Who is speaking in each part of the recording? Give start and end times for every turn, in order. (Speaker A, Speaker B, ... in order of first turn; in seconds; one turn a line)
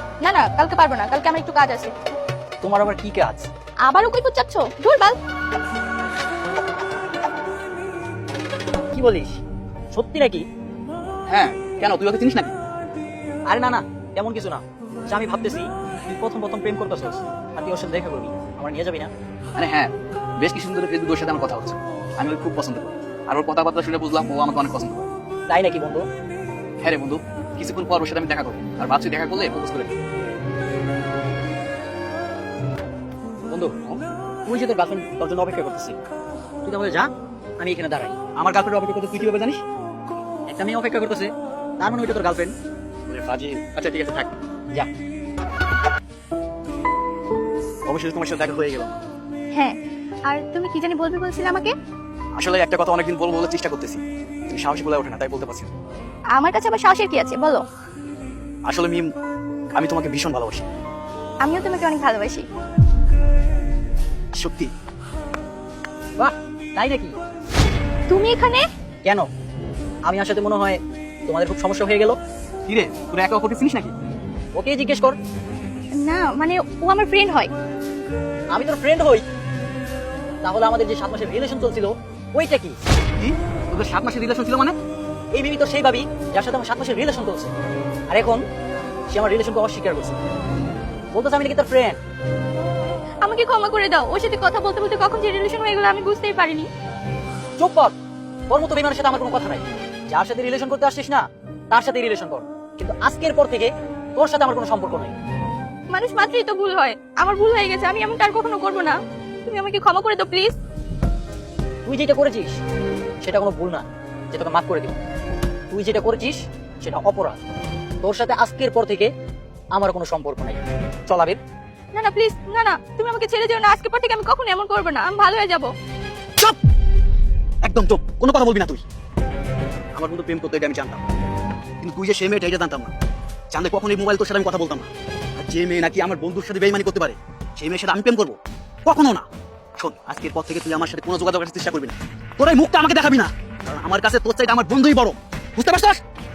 Speaker A: 0.2-1.9
Speaker B: 2.6-3.5
Speaker A: 3.8-5.2
Speaker B: 8.9-9.4
Speaker B: 9.9-10.4
Speaker C: 11.3-12.5
Speaker B: 13.5-19.1
Speaker C: 19.6-25.1
Speaker B: 25.5-26.0
Speaker C: 26.8-29.9
Speaker B: 33.5-36.0
Speaker B: 36.6-38.3
Speaker C: 38.3-39.6
Speaker B: 40.5-42.5
Speaker C: 43.1-44.3
Speaker C: 47.8-49.0
Speaker A: 49.5-51.7
Speaker C: 52.4-55.7
Speaker A: 56.3-57.6
Speaker C: 58.6-59.1
Speaker C: 59.7-60.6
Speaker A: 61.4-62.5
Speaker C: 64.3-64.7
Speaker B: 66.2-67.1
Speaker A: 68.1-68.7
Speaker B: 70.0-72.2
Speaker C: 72.7-73.9
Speaker B: 74.5-75.2
Speaker A: 76.0-77.5
Speaker B: 78.5-79.2
Speaker B: 80.4-82.8
Speaker C: 83.2-84.8
Speaker B: 85.3-87.5
Speaker B: 88.1-88.4
Speaker B: 89.1-90.2
Speaker B: 91.1-92.0
Speaker A: 93.2-96.7
Speaker B: 97.6-97.9
Speaker B: 98.5-105.1
Speaker A: 105.9-110.5
Speaker B: 111.8-112.6
Speaker B: 113.2-115.0
Speaker B: 115.7-117.4
Speaker B: 118.0-119.1
Speaker B: 119.7-121.4
Speaker A: 121.9-125.7
Speaker C: 127.6-128.8
Speaker C: 129.9-131.0
Speaker C: 131.8-132.9
Speaker C: 133.5-146.0